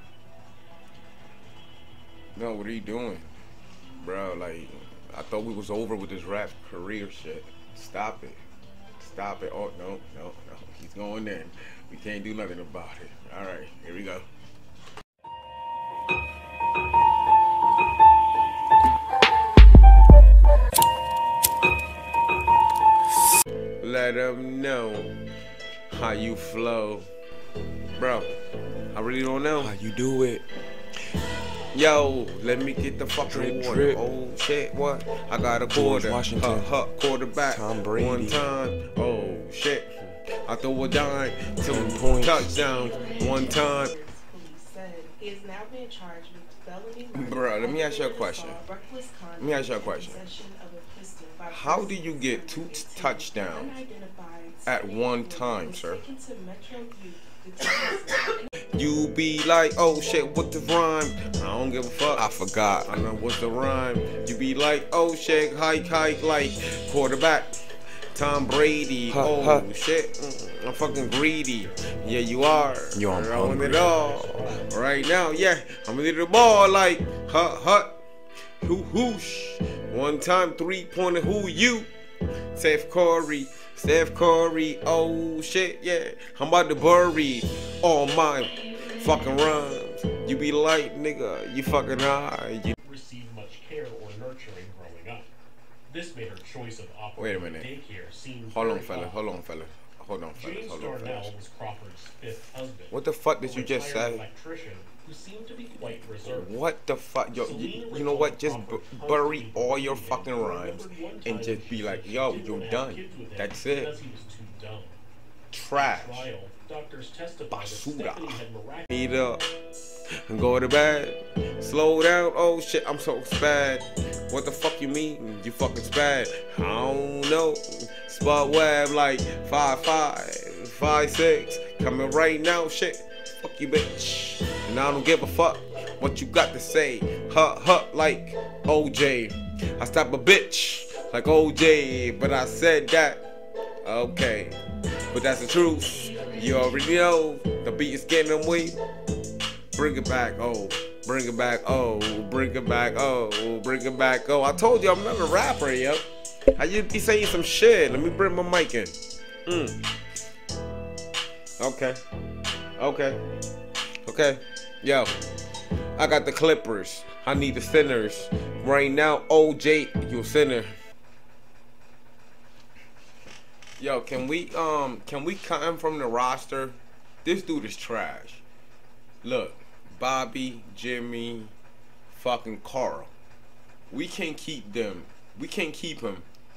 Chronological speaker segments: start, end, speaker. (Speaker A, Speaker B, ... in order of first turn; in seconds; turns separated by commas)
Speaker A: 2.4-3.3, Speaker A: 4.0-8.4, Speaker A: 9.0-14.3, Speaker A: 23.8-25.1, Speaker A: 25.9-27.1, Speaker A: 28.0-28.3, Speaker A: 28.9-29.8, Speaker B: 29.6-30.4, Speaker A: 31.7-43.9, Speaker B: 33.3-34.0, Speaker B: 35.7-36.7, Speaker B: 37.3-38.4, Speaker B: 41.6-42.6, Speaker C: 42.6-58.4, Speaker A: 47.1-48.6, Speaker A: 49.4-50.3, Speaker A: 51.5-53.8, Speaker A: 54.7-56.0, Speaker A: 58.7-67.5, Speaker A: 68.1-78.0, Speaker B: 69.1-69.7, Speaker D: 71.3-72.8, Speaker B: 72.9-73.8, Speaker D: 73.4-74.8, Speaker A: 78.6-81.9, Speaker A: 82.5-92.8, Speaker D: 92.8-95.3, Speaker D: 95.9-99.2, Speaker A: 97.2-97.7, Speaker A: 98.5-101.3, Speaker D: 100.3-106.5, Speaker A: 102.9-104.2, Speaker A: 105.9-113.9, Speaker D: 107.3-115.0, Speaker A: 115.5-116.3, Speaker D: 115.7-118.9, Speaker A: 117.5-118.4, Speaker A: 118.9-119.4, Speaker A: 120.3-143.2, Speaker A: 143.8-144.6, Speaker A: 145.1-148.8, Speaker A: 149.7-156.1, Speaker A: 156.6-158.9, Speaker A: 159.5-159.8, Speaker A: 161.6-162.0, Speaker A: 162.8-163.2, Speaker A: 164.0-165.1, Speaker A: 166.0-170.7, Speaker A: 173.8-178.4, Speaker A: 179.2-181.5, Speaker A: 182.1-183.1, Speaker A: 183.9-186.3